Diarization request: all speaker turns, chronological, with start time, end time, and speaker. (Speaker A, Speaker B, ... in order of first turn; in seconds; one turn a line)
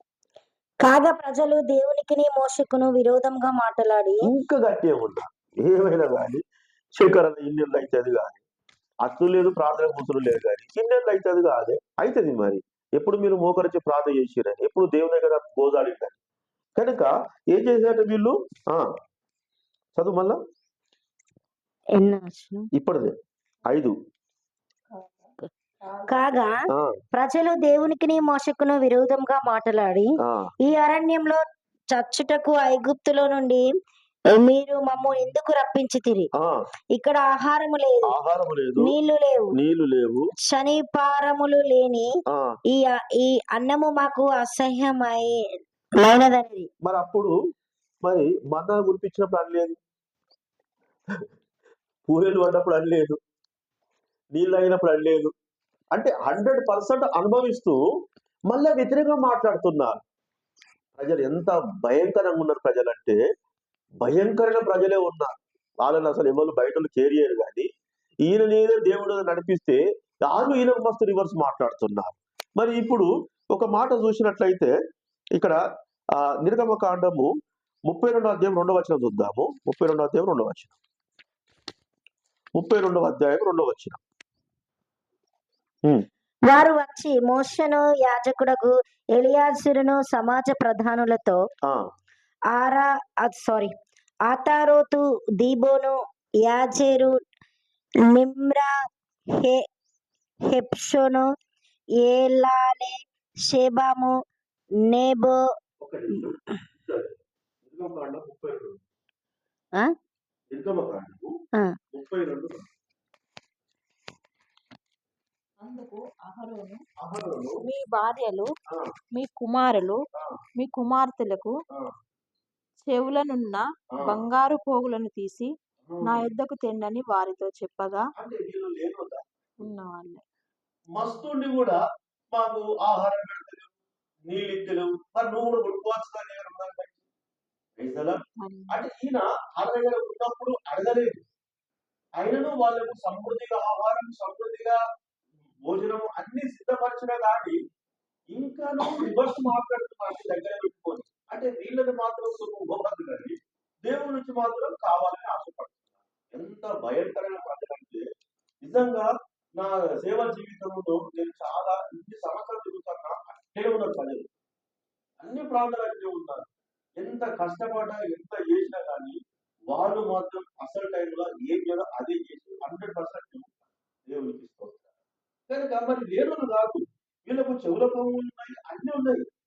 Speaker A: 0.8-4.2
Speaker B: 4.2-6.4
Speaker B: 7.0-8.4
Speaker B: 9.0-16.2
Speaker B: 16.8-18.9
Speaker B: 19.9-20.4
Speaker A: 21.9-22.7
Speaker B: 22.7-23.1
Speaker B: 23.7-23.9
Speaker C: 24.9-26.6
Speaker A: 26.1-33.7
Speaker B: 26.7-27.0
Speaker B: 30.2-30.5
Speaker A: 34.3-36.3
Speaker A: 36.9-38.1
Speaker B: 38.1-38.9
Speaker A: 38.8-39.5
Speaker B: 39.5-40.3
Speaker A: 40.4-42.1
Speaker B: 42.3-42.6
Speaker A: 42.7-46.7
Speaker B: 46.8-47.3
Speaker B: 48.0-49.8
Speaker B: 52.1-53.2
Speaker B: 54.3-55.3
Speaker B: 55.9-57.8
Speaker B: 58.5-60.0
Speaker B: 61.0-63.2
Speaker B: 64.0-67.7
Speaker B: 68.2-74.8
Speaker B: 76.2-77.3
Speaker B: 77.9-80.8
Speaker B: 82.5-84.0
Speaker A: 86.5-91.4
Speaker A: 92.5-93.7
Speaker A: 94.3-97.2
Speaker A: 98.0-98.8
Speaker A: 99.3-99.7
Speaker A: 100.4-101.3
Speaker A: 102.0-104.2
Speaker A: 104.8-105.5
Speaker B: 105.8-108.8
Speaker B: 110.5-111.3
Speaker B: 111.9-112.7
Speaker C: 115.6-116.8
Speaker B: 117.0-117.6
Speaker C: 117.6-118.5
Speaker B: 118.7-118.9
Speaker C: 119.1-120.0
Speaker B: 120.1-120.4
Speaker C: 120.5-121.6
Speaker C: 122.8-128.1
Speaker B: 123.9-124.2
Speaker B: 125.9-126.2
Speaker B: 128.2-129.2
Speaker C: 129.6-130.2
Speaker B: 130.9-131.8
Speaker B: 132.3-133.7
Speaker B: 134.3-137.0
Speaker B: 137.8-141.2
Speaker C: 138.4-138.8
Speaker B: 142.2-144.8
Speaker B: 145.6-147.6
Speaker B: 148.3-158.1
Speaker B: 158.6-164.3
Speaker B: 165.2-169.2
Speaker B: 169.7-173.5
Speaker B: 174.1-174.9
Speaker B: 175.5-179.2